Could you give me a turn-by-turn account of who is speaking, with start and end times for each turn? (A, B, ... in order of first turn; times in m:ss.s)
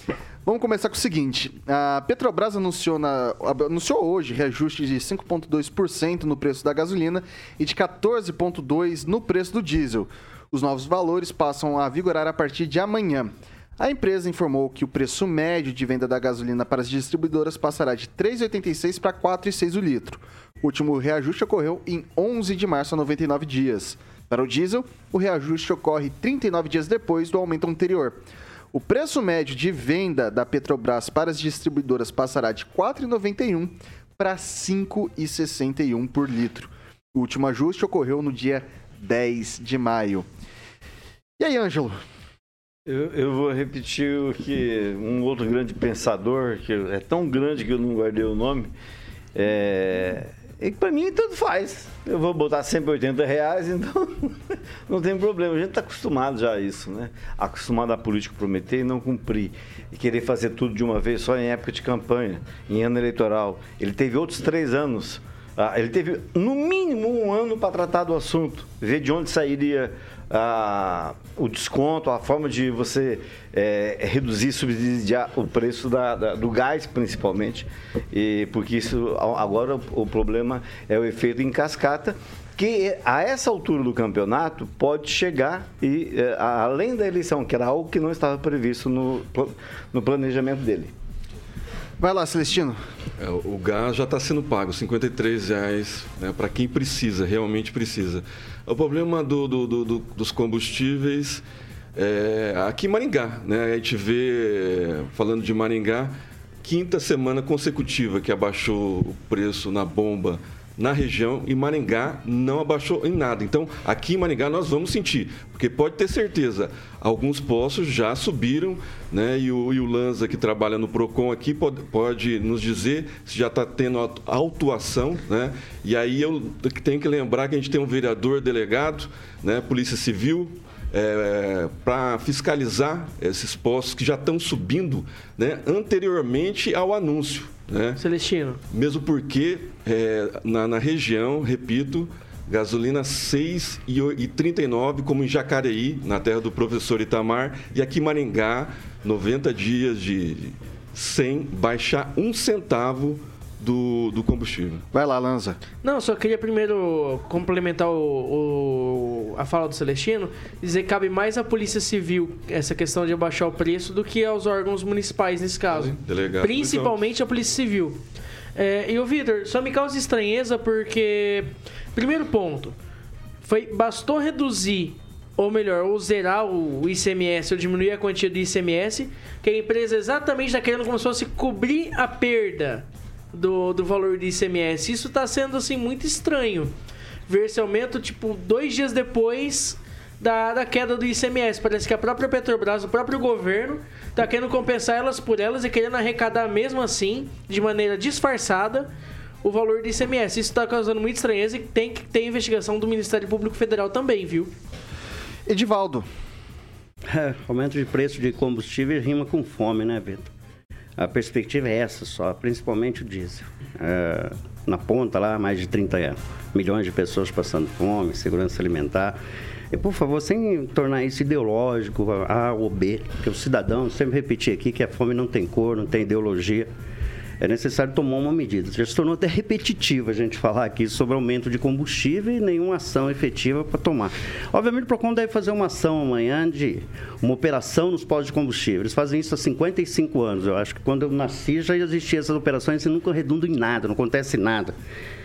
0:00.4-0:28.2 A
0:28.7-0:40.3 A
0:41.4-0:42.0 A
0:42.9-0:48.7 B
0:49.4-1:30.9 B
1:32.0-1:32.8 A
1:33.2-1:41.4 C
1:42.0-2:18.0 C
2:18.0-2:18.6 D
2:18.7-2:34.8 C
2:34.9-2:35.6 A
2:35.8-2:48.0 D
2:45.7-2:47.0 C
2:48.6-2:52.8 D
2:53.4-3:06.7 D
3:07.3-3:18.9 D
3:19.4-3:24.5 D
3:25.5-3:26.1 A
3:27.1-3:30.3 E
3:31.0-3:39.2 E
3:39.7-3:46.7 E
3:47.4-4:04.8 E